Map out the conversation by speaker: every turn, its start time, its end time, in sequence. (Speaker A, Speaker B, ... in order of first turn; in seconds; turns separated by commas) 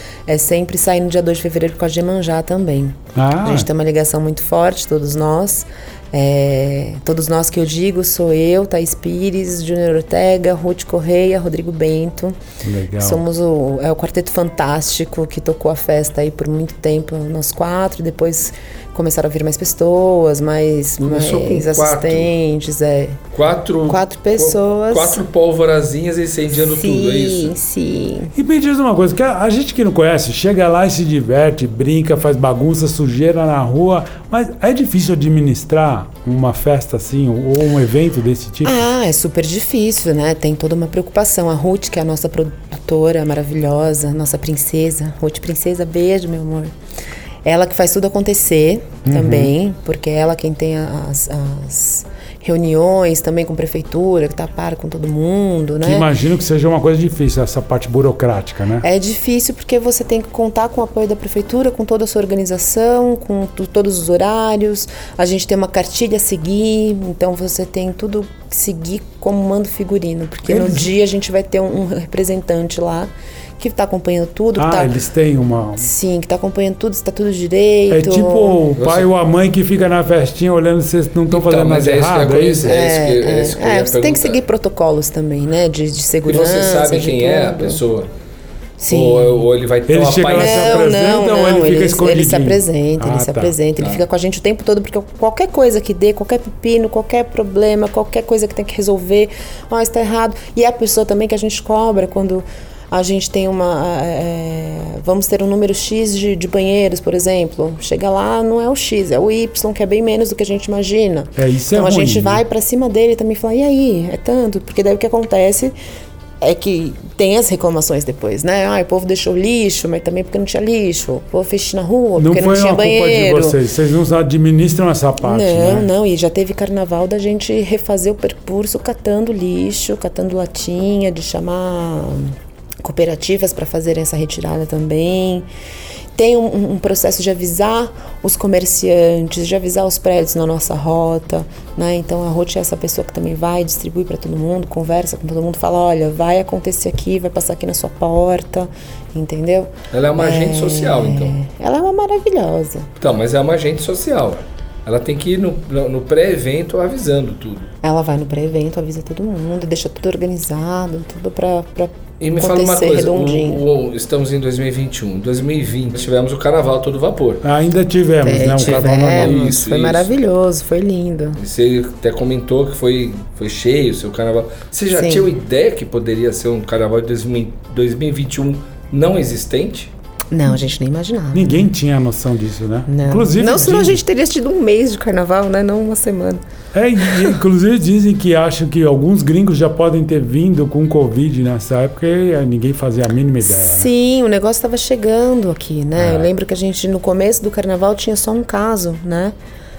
Speaker A: 0.3-12.4, Speaker B: 3.1-3.7, Speaker B: 12.6-13.2, Speaker A: 13.0-23.2, Speaker C: 21.0-22.3, Speaker C: 23.3-27.5, Speaker A: 23.9-25.2, Speaker A: 26.6-28.3, Speaker B: 28.4-38.8, Speaker A: 38.6-46.7, Speaker A: 47.4-56.1, Speaker B: 49.0-49.5, Speaker B: 55.8-58.9, Speaker A: 58.8-74.9, Speaker B: 70.5-70.9, Speaker B: 74.6-75.9, Speaker A: 75.8-78.6, Speaker B: 77.9-82.8, Speaker C: 78.8-79.1, Speaker C: 81.3-84.4, Speaker A: 82.7-87.8, Speaker C: 86.3-88.1, Speaker A: 88.8-89.4, Speaker C: 88.9-90.9, Speaker B: 89.9-93.5, Speaker A: 90.3-115.8, Speaker B: 111.4-112.4, Speaker A: 116.4-123.6, Speaker B: 122.2-125.9, Speaker A: 125.2-135.5, Speaker A: 136.2-152.9, Speaker C: 149.9-151.4, Speaker C: 153.0-157.7, Speaker A: 157.8-163.6, Speaker C: 162.2-167.4, Speaker B: 167.4-169.5, Speaker A: 168.2-171.4, Speaker C: 168.6-170.1, Speaker C: 171.4-179.9, Speaker A: 174.9-175.3, Speaker A: 180.3-181.7, Speaker B: 181.3-184.0, Speaker A: 182.9-186.4, Speaker B: 186.7-193.9, Speaker A: 187.1-187.3, Speaker A: 193.4-199.3, Speaker B: 196.0-196.3